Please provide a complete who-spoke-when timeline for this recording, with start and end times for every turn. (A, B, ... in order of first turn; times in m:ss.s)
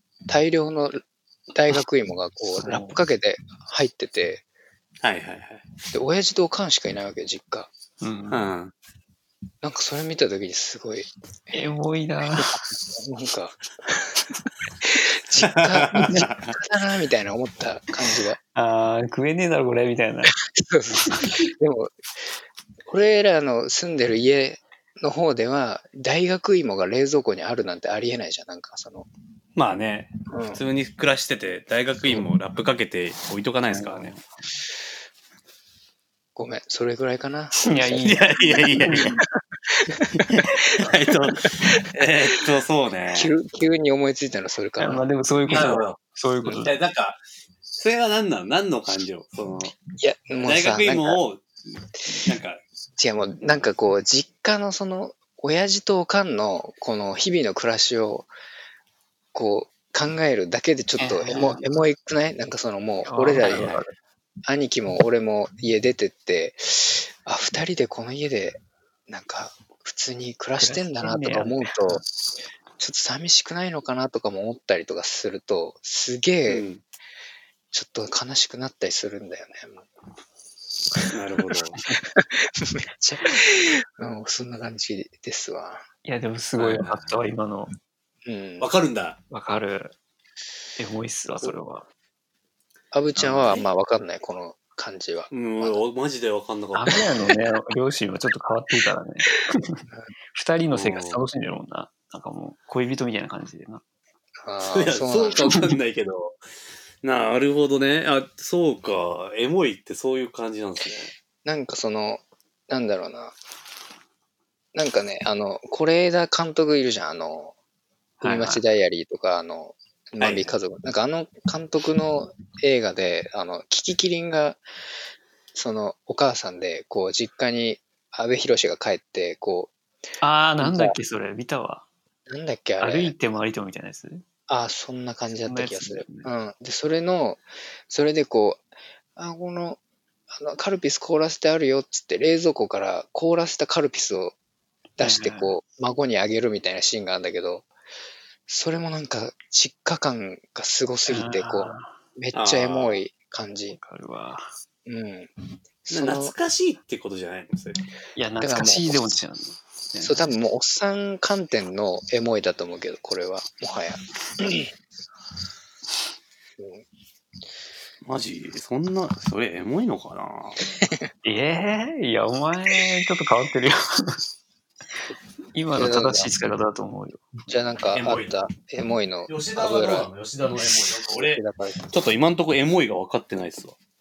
0:00.3-0:04.4 A
0:02.6-0:03.0 B
0:05.0-0:05.6 C
0:05.9-0:07.7 A
0:08.0-0:08.5 B
0:08.3-0:08.7 C
0:09.6-0:11.1 A
0:11.5-0:12.6 B
0:12.9-0:18.4 A
0:15.4-0:16.6 C
0:18.5-0:20.4 B
0:20.5-0:21.9 A
0:21.0-0:21.4 B
0:22.8-0:29.1 A
0:29.6-0:34.2 C
0:30.3-0:30.6 A
0:33.7-0:34.3 B
0:36.3-0:38.6 A
0:37.6-0:39.2 B
0:38.0-0:39.2 C
0:39.8-0:40.4 A
0:40.3-0:43.3 C
0:41.7-0:42.1 A
0:43.1-0:45.8 A
0:44.8-0:46.8 B
0:45.5-0:46.0 C
0:46.5-0:47.2 C
0:47.8-0:49.8 C
0:49.9-0:51.2 A
0:50.4-0:51.4 C
0:52.1-0:52.6 C
0:53.0-0:58.3 A
0:59.3-1:03.8 A
1:01.0-1:01.7 B
1:03.0-1:03.9 B
1:04.4-1:12.0 A
1:10.6-1:12.0 B
1:12.8-1:16.6 A
1:16.5-1:16.8 C
1:17.7-1:19.9 A
1:21.0-1:25.8 A
1:21.1-1:21.8 C
1:26.0-1:27.7 B
1:26.6-1:27.2 C
1:28.2-1:28.7 A
1:28.6-1:29.2 C
1:29.3-1:29.9 B
1:30.8-1:31.9 B
1:32.9-1:35.8 A
1:33.2-1:33.6 C
1:35.3-1:37.0 C
1:36.7-1:39.8 B
1:40.3-1:43.8 B
1:40.7-1:41.2 C
1:44.4-1:45.5 A
1:44.7-1:46.4 C
1:45.4-1:45.7 B
1:47.0-1:51.1 C
1:51.4-1:53.4 A
1:54.7-1:57.5 A
1:58.2-1:58.6 C
1:58.2-2:04.6 A
2:00.2-2:00.5 C
2:05.5-2:09.7 A
2:10.2-2:11.8 B
2:10.6-2:10.9 A
2:12.3-2:13.1 A
2:12.8-2:14.2 B
2:14.5-2:18.6 A
2:15.4-2:16.3 B
2:19.2-2:19.8 A
2:20.3-2:24.3 A
2:25.0-2:27.7 A
2:25.0-2:25.5 B
2:28.5-2:33.8 A
2:31.1-2:32.0 B
2:32.3-2:33.0 C
2:33.7-2:34.5 B
2:34.8-2:35.3 A
2:35.8-2:36.3 A
2:35.9-2:37.8 C
2:38.2-2:40.2 B
2:38.4-2:39.0 A
2:40.0-2:44.7 A
2:46.6-2:46.8 A
2:48.0-2:50.6 C
2:51.2-2:54.2 B
2:55.5-2:57.4 B
2:55.8-2:56.3 A
2:57.5-3:00.1 A
2:57.9-2:58.3 C
2:59.3-3:03.8 C
3:00.7-3:01.8 A